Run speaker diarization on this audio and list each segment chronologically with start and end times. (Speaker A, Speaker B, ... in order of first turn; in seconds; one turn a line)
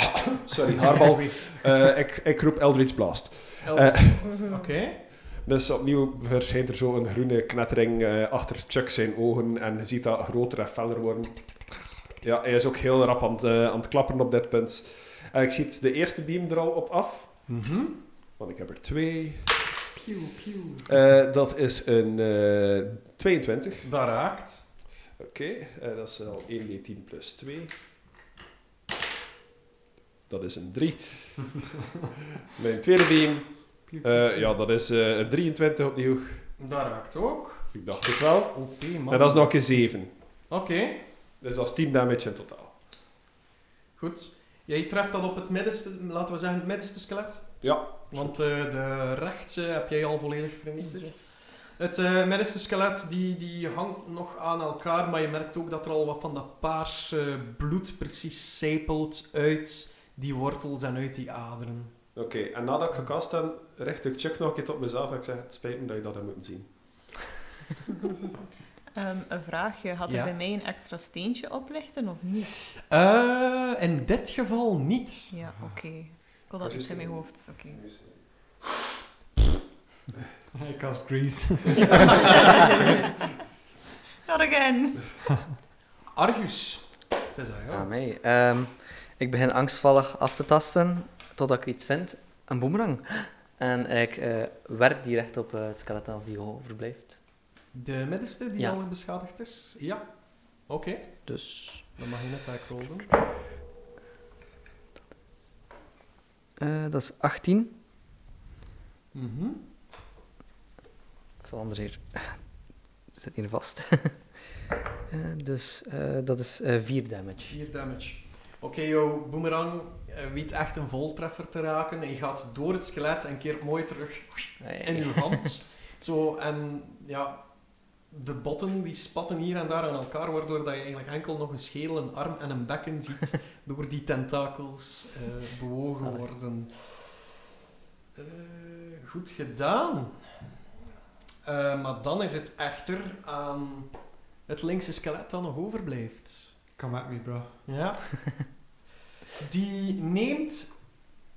Speaker A: 0.3-4.3
Speaker B: 0.7-1.7
Speaker B: 3.6-5.0
Speaker A: 5.2-17.6
Speaker B: 17.5-18.0
Speaker A: 18.4-19.7
Speaker C: 19.9-20.9
Speaker A: 20.9-23.9
Speaker B: 23.8-24.7
Speaker A: 25.1-27.7
Speaker A: 30.3-31.7
Speaker A: 32.5-36.5
Speaker C: 33.9-34.5
Speaker B: 36.6-41.1
Speaker A: 37.7-40.1
Speaker A: 41.4-42.7
Speaker B: 44.0-62.0
Speaker A: 47.6-48.3
Speaker D: 50.8-51.7
Speaker A: 62.1-67.3
Speaker D: 68.9-72.5
Speaker B: 70.0-70.3
Speaker B: 72.8-75.3
Speaker D: 75.3-77.8
Speaker A: 76.6-78.6
Speaker C: 80.5-82.2
Speaker D: 84.2-85.0
Speaker B: 86.1-87.9
Speaker E: 87.7-97.2
Speaker B: 97.7-103.1
Speaker E: 101.3-101.9
Speaker E: 106.6-107.7
Speaker B: 109.1-109.7
Speaker E: 111.4-114.5
Speaker E: 115.1-117.6
Speaker B: 117.4-137.3
Speaker E: 124.6-125.4
Speaker B: 138.1-140.4
Speaker B: 141.4-146.6
Speaker C: 146.8-147.6
Speaker B: 147.7-148.7
Speaker B: 149.4-151.0